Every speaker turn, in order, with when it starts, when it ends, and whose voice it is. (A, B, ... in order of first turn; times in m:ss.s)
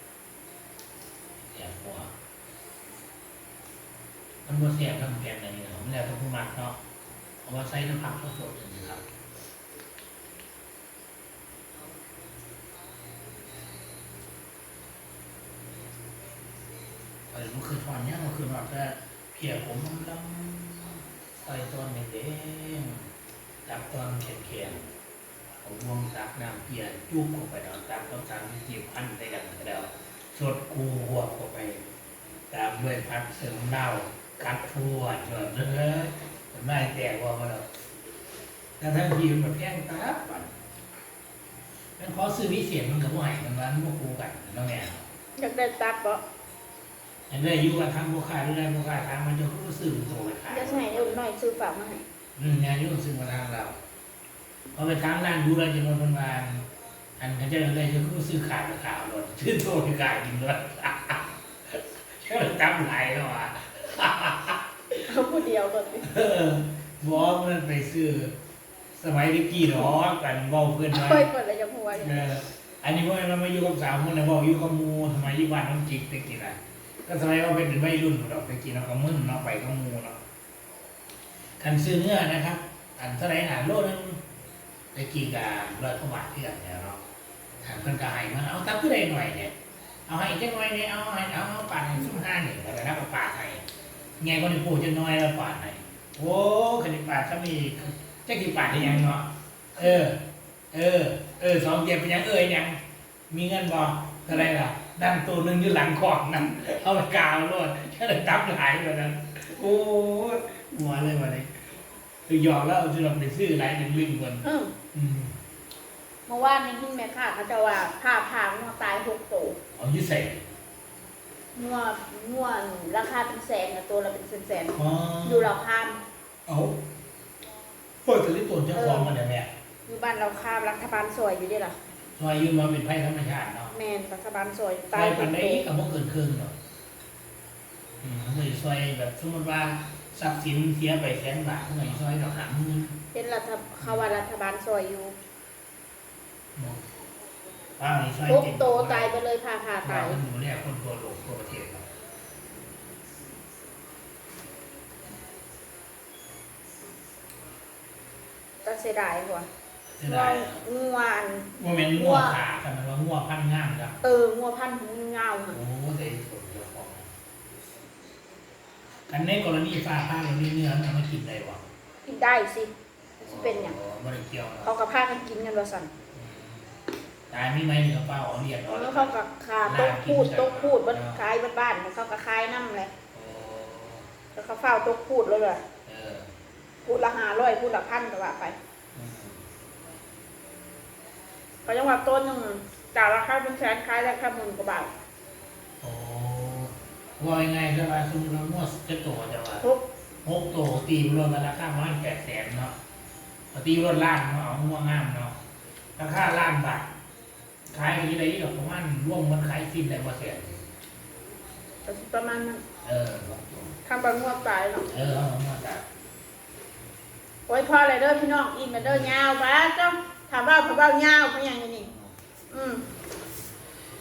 0:01.5-0:02.1 A
0:04.4-0:06.8 A
0:07.4-0:09.0 A
0:17.3-0:23.0 A
0:23.6-0:24.9 A
0:25.6-0:31.8 A
0:32.5-0:37.7 A
0:38.8-0:40.5 A
0:42.0-0:45.0 A
0:45.4-0:46.2 B
0:47.3-0:51.2 A
0:50.5-0:52.0 B
0:52.4-0:53.8 A
0:54.7-0:56.7 A
0:57.2-1:05.1 A
1:05.1-1:06.1 B
1:06.0-1:08.4 A
1:08.9-1:11.3 A
1:10.9-1:12.3 B
1:11.9-1:20.2 A
1:21.6-1:24.2 A
1:24.9-1:27.0 A
1:27.6-1:29.5 A
1:30.1-1:33.6 A
1:34.2-1:51.5 A
1:52.3-1:55.3 A
1:54.4-1:54.7 B
1:56.2-1:59.6 B
1:59.7-2:00.4 A
2:01.5-2:06.0 B
2:04.7-2:05.5 A
2:06.4-2:06.8 A
2:08.0-2:09.5 A
2:08.7-2:09.1 B
2:09.8-2:11.8 B
2:12.2-2:13.7 A
2:13.7-2:15.6 B
2:14.9-2:16.5 A
2:18.0-2:23.0 A
2:23.1-2:25.2 B
2:23.8-2:24.2 A
2:26.5-2:26.8 A
2:27.8-2:29.2 A
2:28.2-2:30.2 B
2:29.8-2:31.9 A
2:38.6-2:39.5 B
2:39.9-2:40.6 A
2:40.0-2:42.4 B
2:41.5-2:44.0 A
2:44.0-2:45.6 B
2:45.5-2:47.1 A
2:49.1-2:51.6 A
2:52.0-2:53.8 B
2:53.2-2:54.7 A
2:54.6-2:55.9 B
2:56.1-2:56.7 A
2:57.3-3:01.2 A
2:58.7-3:02.9 B
3:03.1-3:04.1 A
3:04.3-3:05.6 B
3:05.8-3:06.3 A
3:06.8-3:08.6 B
3:08.9-3:09.4 A
3:11.6-3:14.9 B
3:15.8-3:19.7 A
3:20.2-3:22.7 A
3:23.5-3:25.4 A
3:26.0-3:26.9 A
3:27.7-3:30.6 A
3:31.8-3:32.6 B
3:32.8-3:33.8 A
3:33.8-3:34.9 B
3:34.9-3:35.8 A
3:37.5-3:41.9 B
3:38.7-3:39.1 A
3:42.5-3:42.9 B